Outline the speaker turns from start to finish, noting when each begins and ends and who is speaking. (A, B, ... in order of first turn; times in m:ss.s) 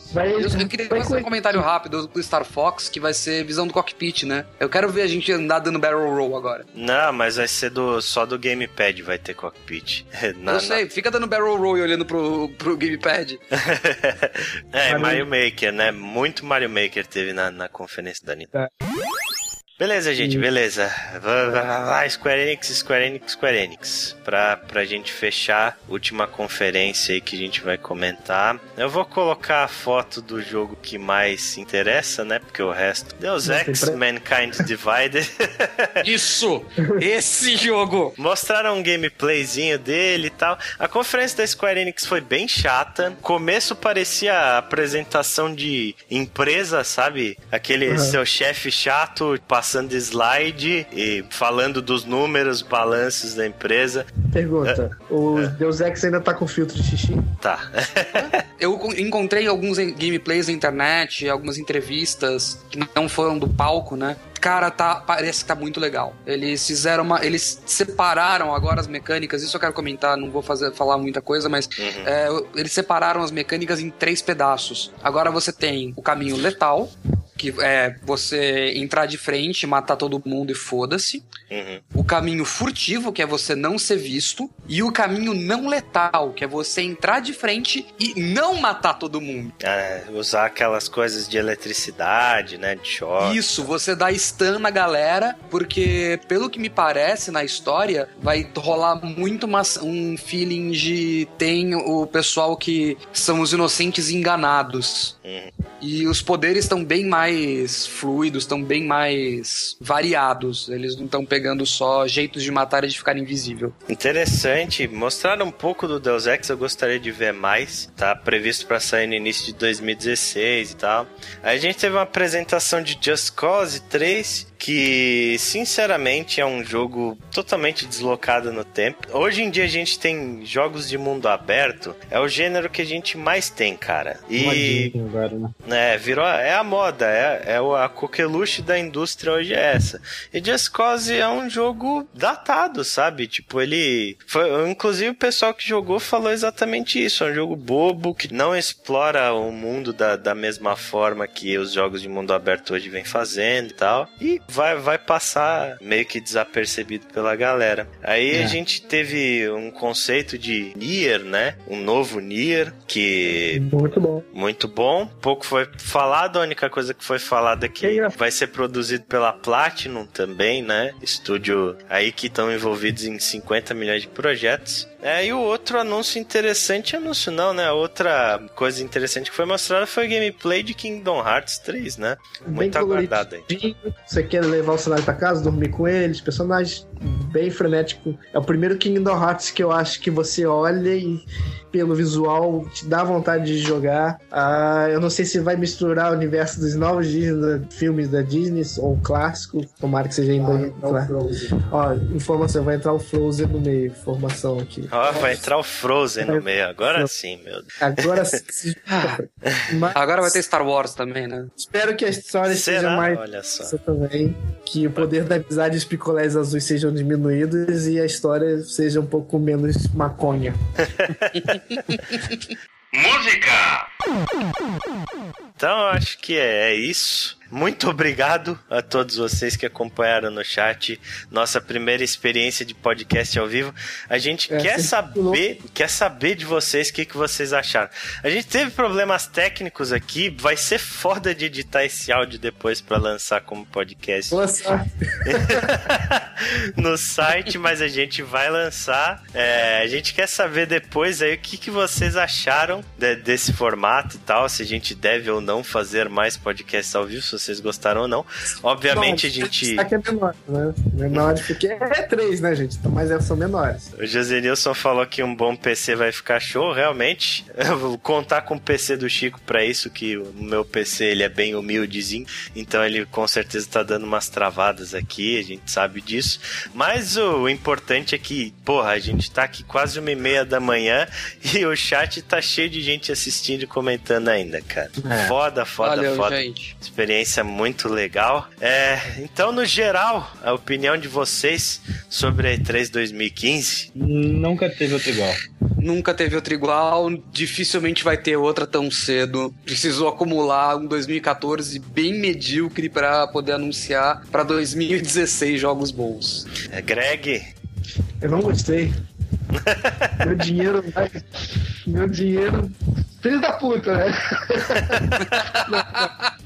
0:00.1-0:01.6 A
0:00.4-0:06.6 B
0:06.7-0:10.8 C
0:10.5-0:13.4 B
0:13.5-0:18.5 C
0:14.9-0:15.3 A
0:19.8-0:36.0 C
0:20.2-0:20.4 A
0:33.4-0:34.0 A
0:36.0-0:38.2 B
0:38.2-0:54.1 C
0:47.9-0:48.2 A
0:54.3-0:57.3 A
0:57.4-0:58.4 C
0:58.6-1:21.3 B
1:11.8-1:12.1 C
1:21.5-1:21.8 C
1:21.9-1:29.6 B
1:29.6-1:33.4 C
1:33.2-1:45.2 B
1:45.2-1:45.5 C
1:45.8-1:53.7 B
1:53.9-2:14.9 C
2:14.4-2:15.5 D
2:15.6-2:43.7 C
2:43.5-2:44.3 A
2:44.3-3:03.5 C
2:47.8-2:48.2 A
3:02.4-3:25.4 A
3:24.9-3:28.4 C
3:26.2-3:27.1 A
3:27.8-3:30.4 A
3:29.4-3:29.8 C
3:29.9-3:31.5 B
3:31.6-3:40.6 A
3:32.5-3:33.7 C
3:40.8-3:42.0 C
3:42.9-3:43.9 C
3:45.6-4:04.4 C
3:54.5-3:55.4 A
4:04.3-4:05.7 A
4:05.2-4:19.9 C
4:18.9-4:23.9 A
4:24.0-4:53.9 C
4:45.1-4:45.4 D
4:45.8-4:46.7 B
4:54.0-4:55.4 D
4:55.8-5:06.5 B
5:06.7-5:07.5 C
5:08.2-5:08.9 A
5:09.5-5:10.2 C
5:10.2-5:16.1 A
5:14.9-5:15.4 C